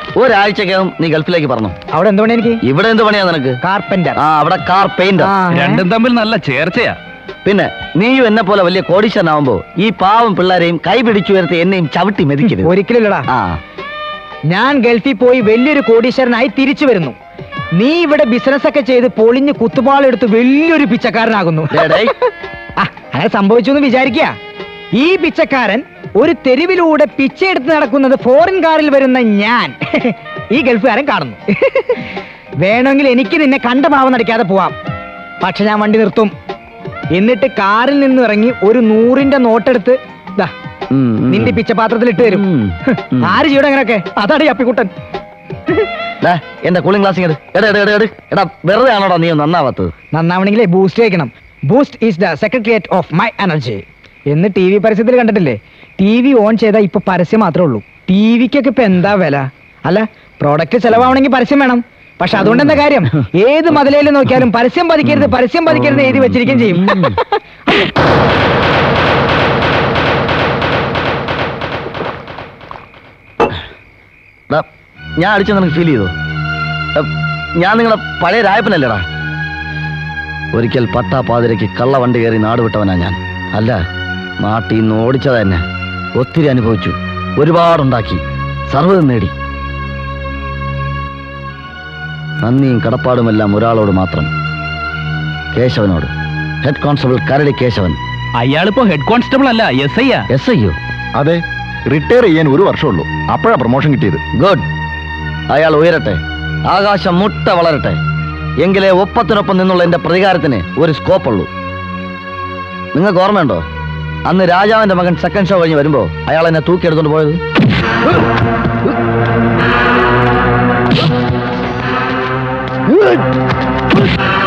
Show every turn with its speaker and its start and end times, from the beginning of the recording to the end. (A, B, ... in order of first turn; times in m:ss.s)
0:00.2-0:01.7 A
0:01.9-0:02.6 B
0:02.6-0:03.6 A
0:03.6-0:04.2 B
0:04.2-0:05.3 A
0:05.5-0:06.9 C
0:07.4-0:12.7 A
0:12.5-0:13.2 B
0:13.3-0:13.6 A
0:14.5-0:17.2 B
0:17.8-0:22.0 B
0:21.7-0:22.1 A
0:22.8-0:24.4 B
0:24.9-0:32.0 B
0:32.6-0:34.7 B
0:35.4-0:36.3 B
0:37.1-0:40.5 B
0:40.9-0:41.6 A
0:41.3-0:42.4 B
0:42.2-0:43.3 A
0:43.1-0:44.9 B
0:46.2-0:49.9 A
0:50.1-1:07.0 B
1:06.6-1:07.2 A
1:15.2-1:16.1 A
1:17.0-1:19.0 A
1:20.5-1:23.8 A
1:24.4-1:25.6 A
1:26.2-1:29.3 A
1:32.4-1:34.3 A
1:35.5-1:36.1 A
1:36.6-1:38.0 A
1:38.4-1:40.2 C
1:40.3-1:40.8 A
1:41.2-1:44.2 D
1:44.4-1:44.6 A
1:45.5-1:48.0 A
1:48.6-1:51.5 A
1:52.9-1:53.6 A
1:54.2-1:57.4 A